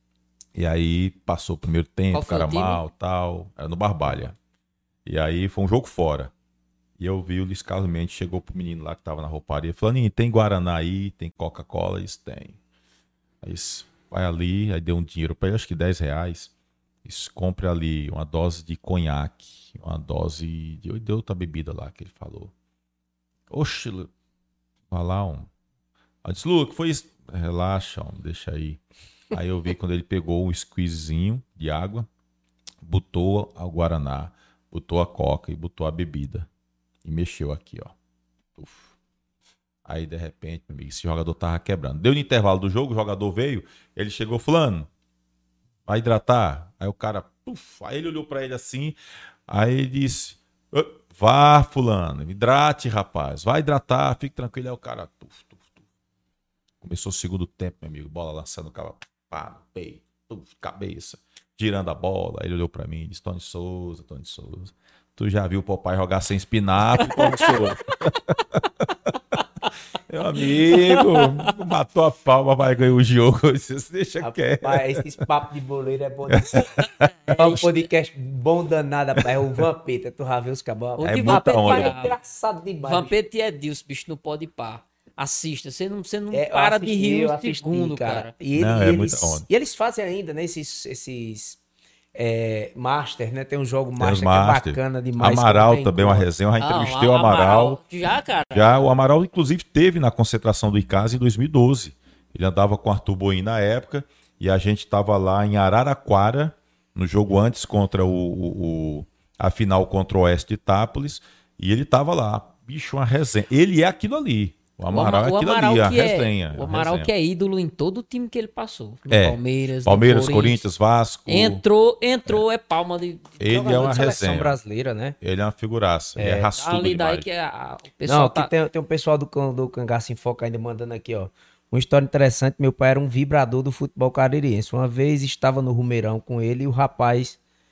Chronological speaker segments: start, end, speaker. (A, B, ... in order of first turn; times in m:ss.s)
0:00.5-0:04.4 A
0:02.1-0:02.8 B
0:05.0-0:06.3 A
0:07.0-0:12.6 A
0:13.4-0:16.5 A
0:17.0-0:22.5 A
0:23.5-0:24.1 A
0:24.9-0:25.5 A
0:26.2-0:28.8 A
0:29.3-0:32.1 A
0:32.8-0:36.5 A
0:37.0-0:37.9 A
0:38.6-0:38.9 A
0:39.8-0:44.9 A
0:45.8-0:49.0 A
0:49.5-0:55.8 A
0:56.8-1:08.6 A
1:07.0-1:07.6 B
1:10.1-1:15.0 A
1:10.7-1:11.5 B
1:14.2-1:23.1 C
1:16.3-1:16.9 A
1:17.2-1:17.8 B
1:21.0-1:22.1 B
1:21.0-1:21.9 A
1:22.8-1:28.3 B
1:26.3-1:31.6 C
1:28.5-1:29.4 A
1:32.1-1:36.3 C
1:34.0-1:37.8 A
1:36.6-1:38.9 B
1:38.5-1:57.1 A
1:54.9-2:00.6 B
1:59.1-2:01.6 A
2:01.2-2:04.1 B
2:03.4-2:04.6 A
2:03.4-2:05.2 C
2:05.2-2:07.2 A
2:06.2-2:06.5 C
2:06.6-2:08.5 B
2:08.0-2:17.4 C